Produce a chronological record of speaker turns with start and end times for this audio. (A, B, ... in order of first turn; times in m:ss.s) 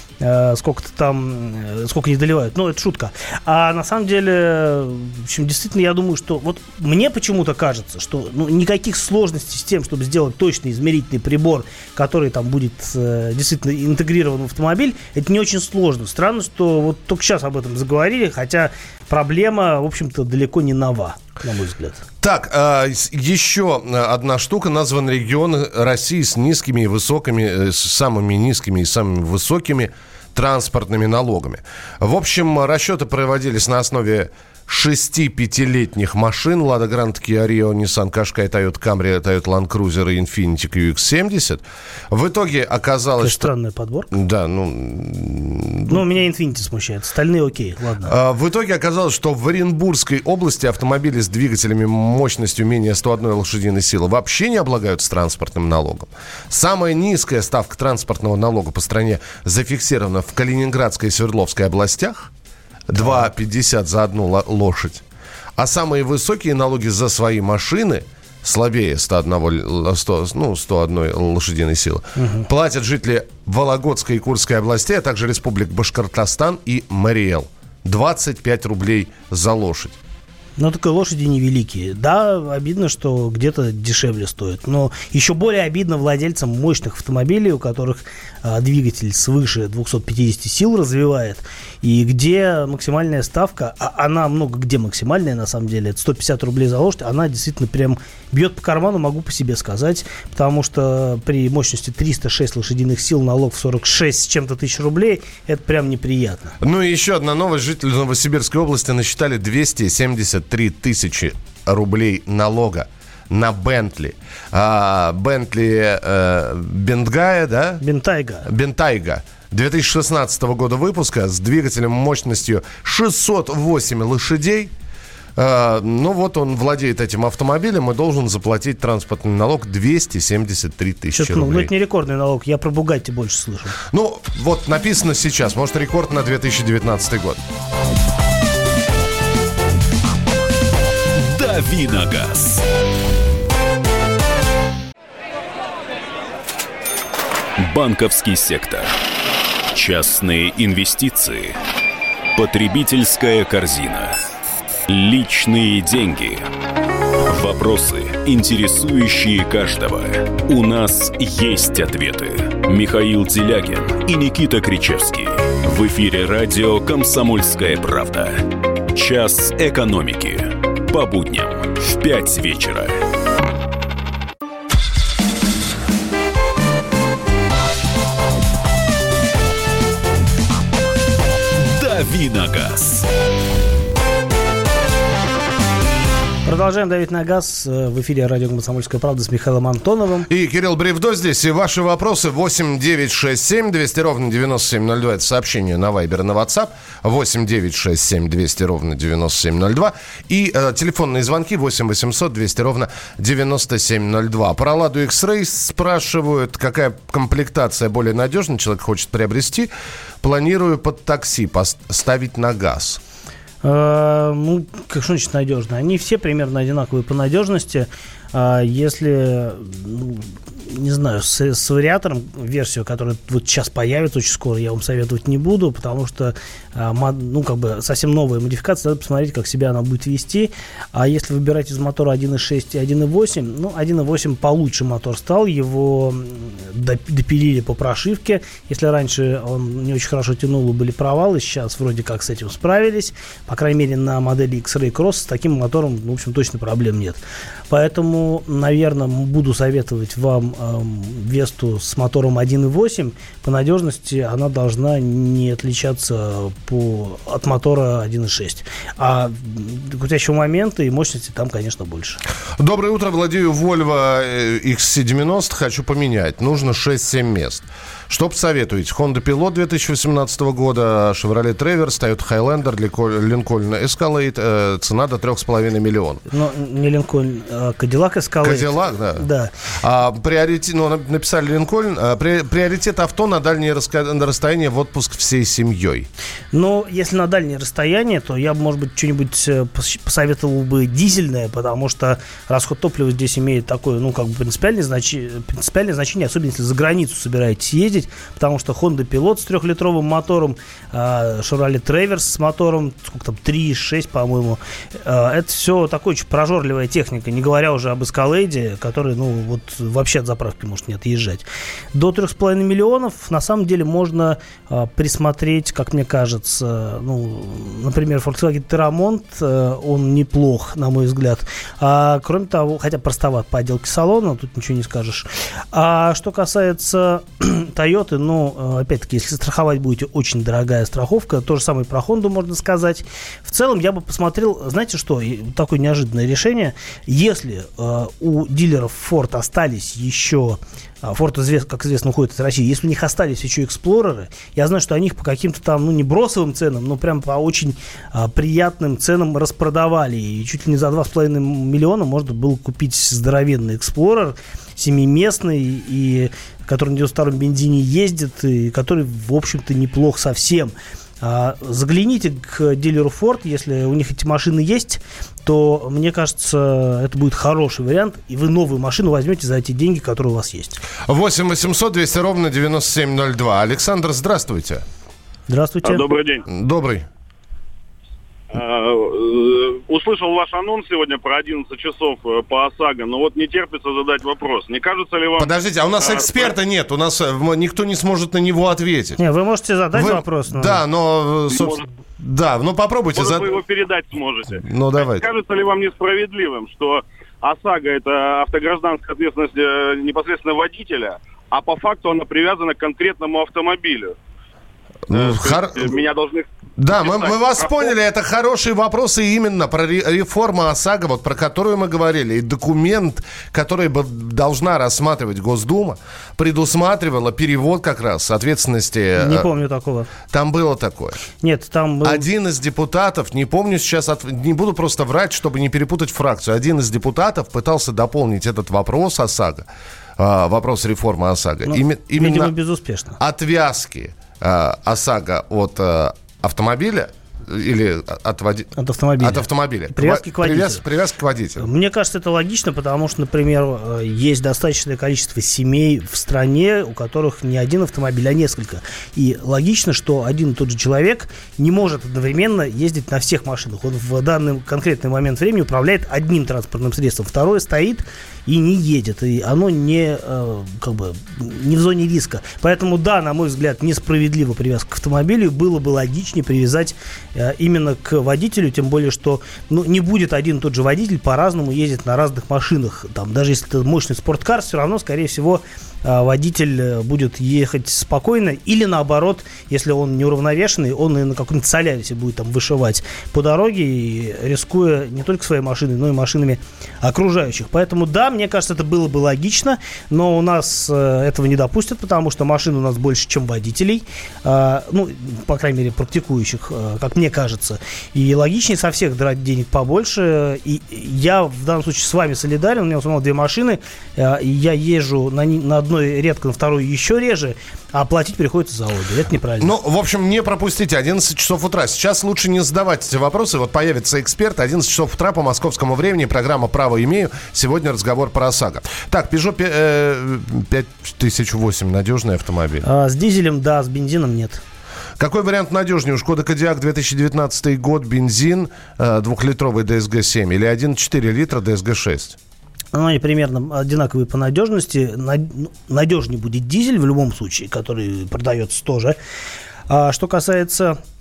0:00.2-0:22.0 A
0:22.2-0:43.5 B
0:43.2-0:44.1 A
0:44.1-0:46.0 B
0:45.9-0:48.1 A
0:48.0-1:02.3 B
1:02.9-1:05.0 B
1:05.6-1:20.0 B
1:12.2-1:12.5 A
1:20.6-1:46.6 A
1:46.6-1:57.8 B
1:57.8-1:58.5 A
1:58.4-2:04.7 B
2:05.4-2:11.7 B
2:11.1-2:13.8 A
2:13.9-2:17.4 B
2:21.1-2:22.6 C
2:27.6-2:29.0 C
2:29.7-2:31.6 C
2:32.3-2:34.2 C
2:34.9-2:36.5 C
2:37.2-2:53.0 C
3:01.6-3:03.1 C
3:06.5-3:10.3 A
3:10.3-3:29.7 B
3:30.2-3:33.0 B
3:33.6-4:22.2 A
4:22.6-4:36.2 B
4:36.3-4:39.5 A
4:38.4-4:39.2 B
4:39.8-4:46.1 B
4:46.5-6:10.8 A
6:11.0-6:14.8 B
6:15.5-6:16.0 A
6:15.8-6:16.4 D
6:16.5-6:17.1 B
6:18.5-6:25.5 D
6:25.4-6:29.2 B
6:26.0-6:26.5 D
6:29.2-6:30.8 A
6:29.9-6:33.6 B
6:31.5-6:31.8 D
6:33.1-6:44.2 D
6:34.6-6:35.2 B
6:45.1-6:46.0 B
6:45.1-6:47.9 D
6:46.8-6:59.5 B
6:59.2-7:00.1 A
7:00.3-7:01.2 B
7:01.4-7:02.3 A
7:02.0-7:12.5 B
7:11.6-7:13.2 A
7:13.2-7:21.7 B
7:18.8-7:20.8 A
7:21.6-8:29.7 A
8:29.6-8:42.9 B
8:42.8-8:44.6 A
8:45.2-8:52.4 B
8:52.9-8:59.2 A
8:59.9-9:01.0 A